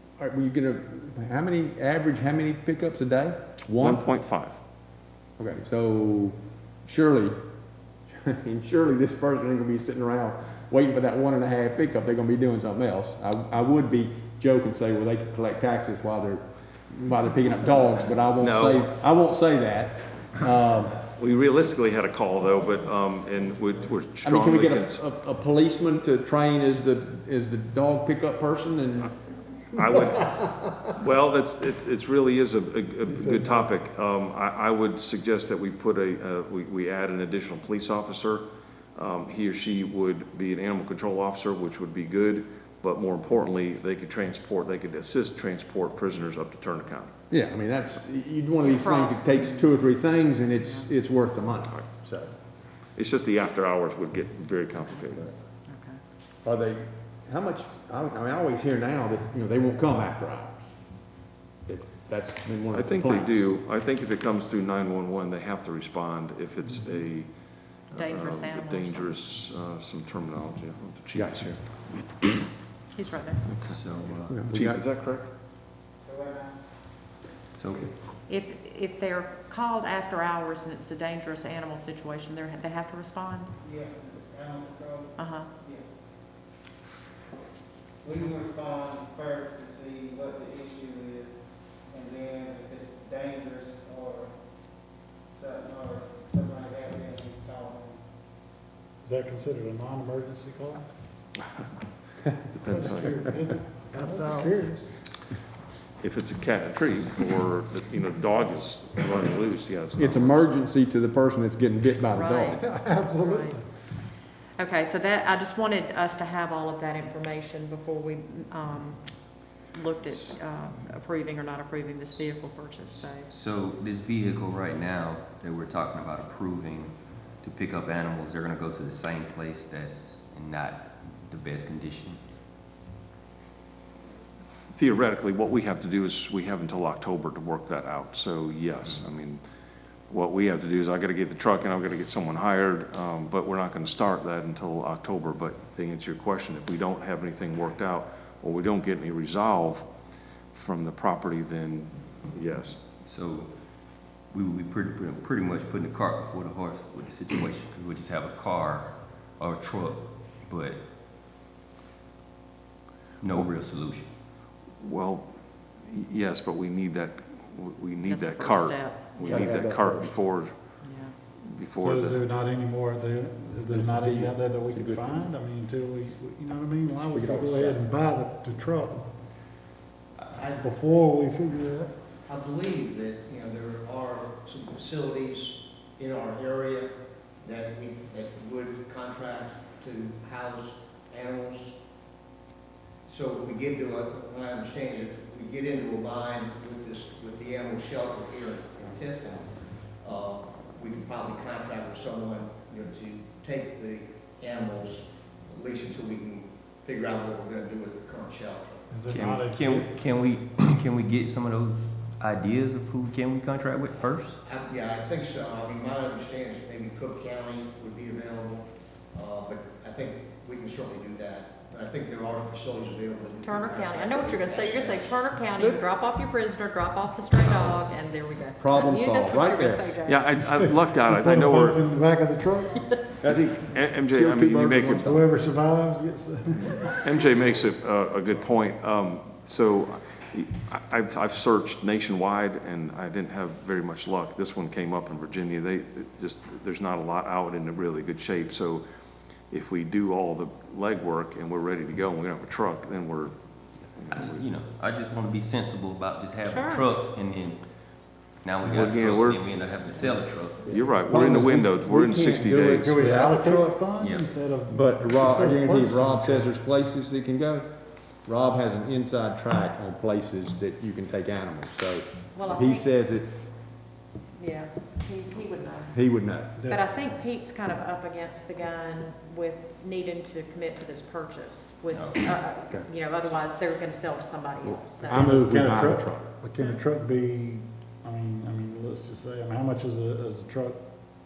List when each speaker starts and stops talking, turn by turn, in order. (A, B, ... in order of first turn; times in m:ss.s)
0:00.2-0:04.0 A
0:03.8-0:04.6 B
0:05.4-0:07.4 A
0:08.1-0:21.0 A
0:18.4-0:18.9 B
0:21.2-0:25.0 B
0:24.2-0:29.2 A
0:29.8-0:30.3 B
0:29.8-0:30.8 A
0:30.9-0:47.1 B
0:33.3-0:33.5 C
0:47.3-0:52.3 A
0:48.6-0:49.6 D
0:53.0-0:55.3 B
0:55.7-0:56.0 D
0:56.4-1:00.6 A
1:01.7-1:03.5 A
1:02.7-1:07.3 B
1:07.9-1:11.6 B
1:08.0-1:09.2 D
1:11.2-1:11.6 A
1:13.0-1:13.4 D
1:13.5-1:13.8 B
1:13.6-1:14.4 E
1:14.3-1:14.8 A
1:14.5-1:15.3 B
1:16.1-1:16.6 F
1:17.6-1:18.0 E
1:18.3-1:23.5 D
1:23.6-1:25.1 F
1:25.2-1:25.5 D
1:28.0-1:31.3 F
1:31.9-1:34.3 F
1:35.3-1:38.0 F
1:39.0-1:40.8 C
1:42.5-1:43.4 B
1:42.6-1:44.9 C
1:46.0-1:50.5 B
1:50.0-1:52.6 A
1:52.1-1:53.6 D
1:52.6-1:53.6 C
1:54.6-1:59.0 D
1:59.7-2:03.3 D
2:03.3-2:12.2 E
2:14.7-2:19.4 B
2:20.1-2:29.9 B
2:30.5-2:32.8 B
2:33.0-2:33.5 E
2:34.3-2:40.8 E
2:43.2-2:44.1 E
2:44.8-2:45.3 B
2:45.8-2:50.5 B
2:48.0-2:49.3 D
2:49.2-2:50.1 A
2:50.8-2:51.1 D
2:51.4-2:52.2 B
2:51.8-2:59.1 C
2:53.7-2:55.3 A
2:57.0-2:57.8 A
3:00.4-3:01.9 C
3:02.2-3:06.9 G
3:07.4-3:11.8 G
3:13.1-3:19.5 G
3:20.0-3:28.9 G
3:28.9-3:29.9 C
3:29.1-3:34.4 E
3:34.4-3:45.2 G
3:43.4-3:50.2 D
3:48.6-3:49.9 A
3:50.0-3:51.8 B
3:50.3-3:52.8 C
3:52.8-3:53.1 D
3:53.2-3:55.2 A
3:53.2-3:55.2 B
3:55.1-3:57.0 C
3:56.9-4:08.8 B
4:09.5-4:13.4 B
4:13.9-4:14.5 B
4:14.1-4:20.8 E
4:16.5-4:16.9 D
4:18.7-4:19.4 B
4:20.7-4:23.0 B
4:20.7-4:23.8 A
4:20.9-4:21.3 C
4:22.6-4:26.5 C
4:24.0-4:24.3 E
4:24.7-4:27.7 A
4:28.2-4:33.4 A
4:32.4-4:32.9 D
4:34.4-4:36.0 D
4:35.9-4:36.6 A
4:36.6-4:36.9 C
4:36.7-4:45.2 D
4:41.9-4:42.4 E
4:44.7-4:46.3 A
4:45.0-4:50.8 C